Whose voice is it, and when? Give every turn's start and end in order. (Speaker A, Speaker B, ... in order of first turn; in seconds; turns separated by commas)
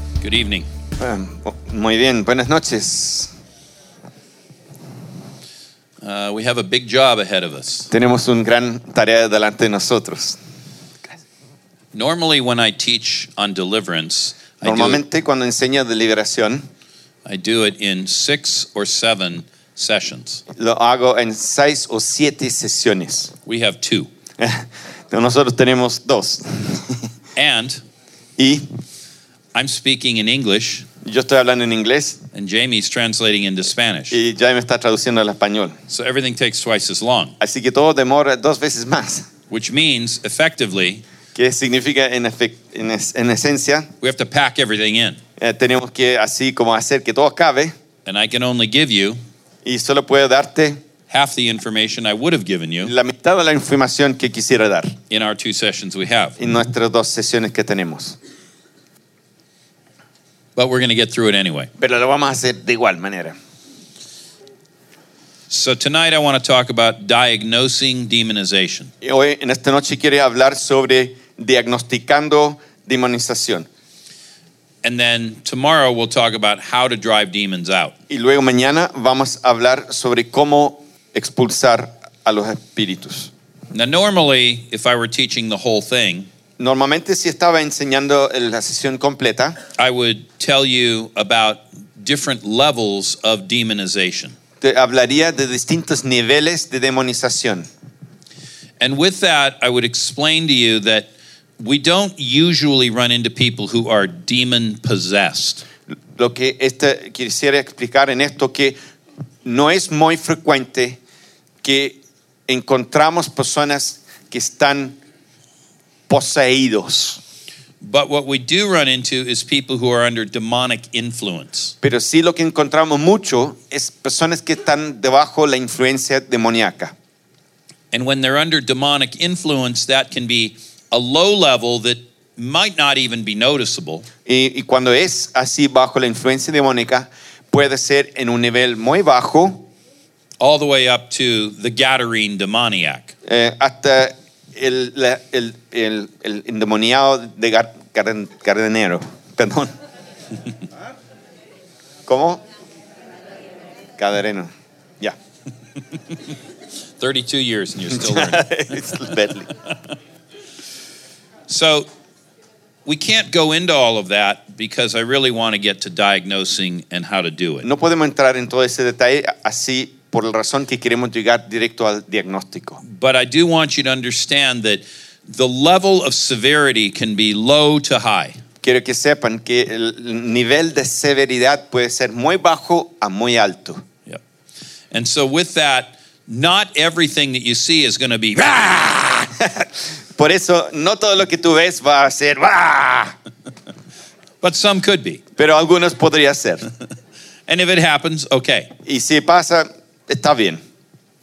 Speaker A: 0.2-0.7, Speaker B: 1.0-3.3, Speaker A: 6.0-7.9, Speaker B: 7.9-10.4, Speaker A: 11.9-15.0, Speaker B: 14.6-16.7, Speaker A: 17.2-20.4, Speaker B: 20.6-23.3, Speaker A: 23.5-24.1, Speaker B: 24.4-27.1, Speaker A: 27.4-27.8, Speaker B: 28.4-28.7, Speaker A: 29.5-30.9, Speaker B: 31.0-32.2, Speaker A: 32.3-34.2, Speaker B: 34.1-35.8, Speaker A: 35.9-37.4, Speaker B: 37.4-39.3, Speaker A: 39.5-41.0, Speaker B: 41.4-43.9, Speaker A: 44.0-45.2, Speaker B: 45.4-47.8, Speaker A: 48.0-49.2, Speaker B: 49.6-50.8, Speaker A: 51.1-52.9, Speaker B: 52.8-55.0, Speaker A: 55.1-56.4, Speaker B: 56.4-58.2, Speaker A: 60.6-61.7, Speaker B: 61.8-63.4, Speaker A: 65.5-68.9, Speaker B: 69.0-73.7, Speaker A: 74.8-78.0, Speaker B: 78.1-83.3, Speaker A: 83.7-86.3, Speaker B: 86.6-89.6, Speaker A: 89.8-94.4, Speaker B: 94.6-97.7, Speaker A: 98.8-105.6, Speaker B: 106.2-108.8, Speaker B: 109.5-111.0, Speaker B: 111.6-115.0, Speaker B: 116.1-117.2, Speaker A: 117.8-121.8, Speaker B: 121.8-126.9, Speaker A: 127.9-134.1, Speaker B: 134.2-139.7, Speaker A: 140.4-143.1, Speaker B: 143.2-149.7, Speaker B: 152.1-152.4, Speaker B: 154.0-155.2, Speaker A: 157.0-158.5, Speaker B: 157.9-159.5, Speaker A: 161.5-161.9, Speaker A: 162.9-167.7, Speaker B: 167.6-172.8, Speaker A: 172.8-178.4, Speaker B: 178.6-183.8, Speaker A: 184.9-189.3, Speaker B: 189.4-193.2, Speaker A: 194.4-195.2, Speaker B: 195.4-196.7, Speaker A: 197.5-198.7, Speaker B: 198.9-200.6